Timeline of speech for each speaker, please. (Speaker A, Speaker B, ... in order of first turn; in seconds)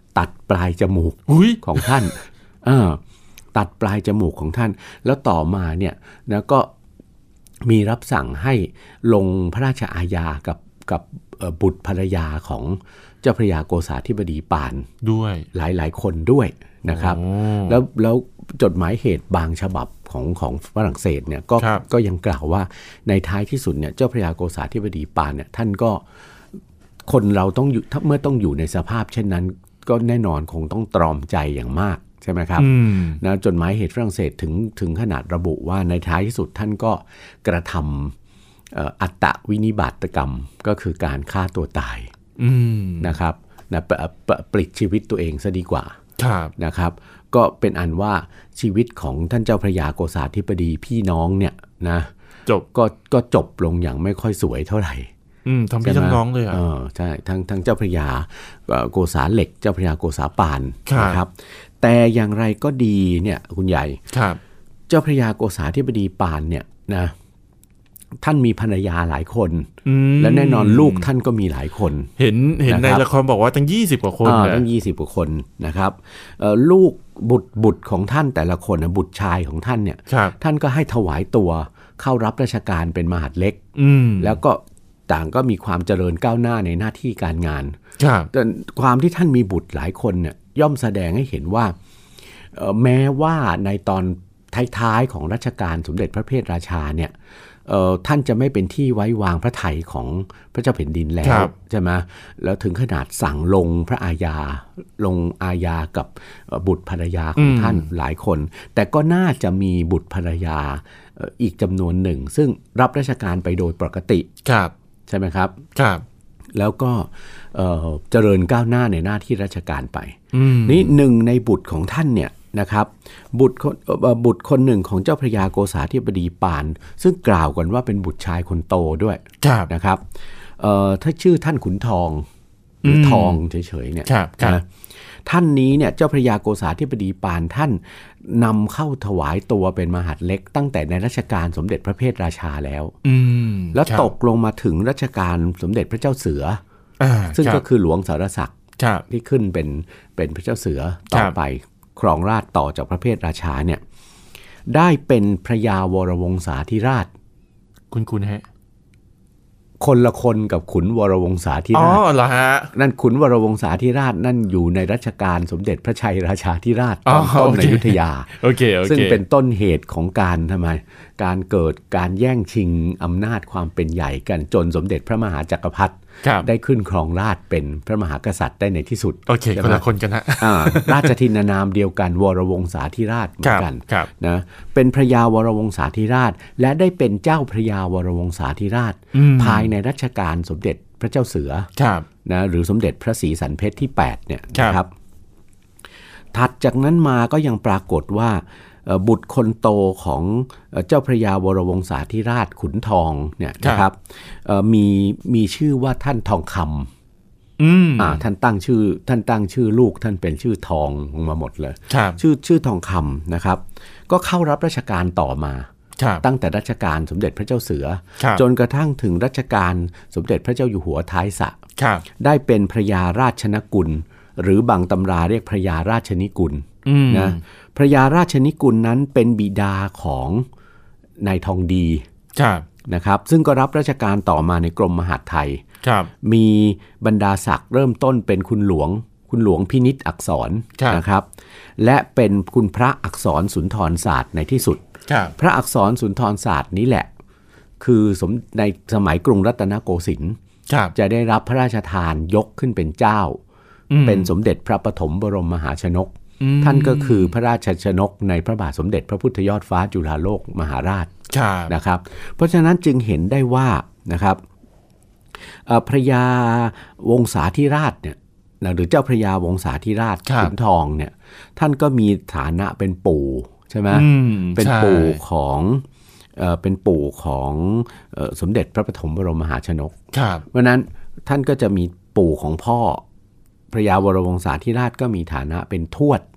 Speaker A: 0.1-3.0, 3.5-6.7, 7.6-14.9, 15.5-26.0, 27.1-38.1, 38.7-42.1, 43.0-46.0, 46.6-52.1, 52.7-55.1, 55.8-64.0, 64.9-67.1, 68.2-72.1, 72.6-73.0, 74.2-83.6, 84.2-87.8, 88.3-91.7, 92.5-97.1, 97.7-114.3, 115.1-115.6, 116.5-130.0, 130.6-132.2, 132.8-134.7, 135.2-142.9, 143.7-146.6, 147.3-148.5, 149.1-153.8, 154.7-157.1, 159.8-162.0, 162.7-179.8, 180.4-191.7, 192.2-194.9, 196.3-206.9, 208.0-215.7, 216.2-221.6, 222.2-230.4, 231.2-232.0, 232.9-235.6, 236.2-241.3, 241.8-244.8, 245.4-247.1, 247.8-250.4, 250.9-253.4, 254.0-261.1, 261.7-264.4, 265.6-275.8, 276.4-279.9, 280.5-283.0, 283.7-286.2
Speaker B: 1.3-2.1, 15.0-15.5, 16.9-17.8, 21.6-21.8, 32.6-33.2, 42.4-43.2, 46.2-46.5, 55.4-56.6, 60.9-61.2, 64.1-64.4, 69.8-71.1, 72.2-74.7, 80.1-80.3, 83.7-84.4, 88.0-88.3, 101.2-101.5, 107.4-107.9, 114.4-114.7, 115.7-116.0, 120.3-121.0, 129.4-129.7, 132.8-133.4, 134.1-134.6, 143.0-144.1, 147.0-147.6, 148.8-149.1, 151.1-151.4, 157.9-158.4, 161.7-162.7, 167.0-169.2, 176.2-176.5, 179.3-181.1, 183.4-184.1, 189.1-189.7, 191.8-192.1, 207.6-208.2, 211.9-212.2, 216.0-216.2, 218.2-218.4, 221.8-222.0, 226.8-227.4, 232.3-232.7, 235.8-236.1, 245.1-245.3, 250.7-250.9, 253.9-254.3, 256.4-257.3, 261.3-261.7, 270.2-270.5, 273.9-275.2, 280.1-280.4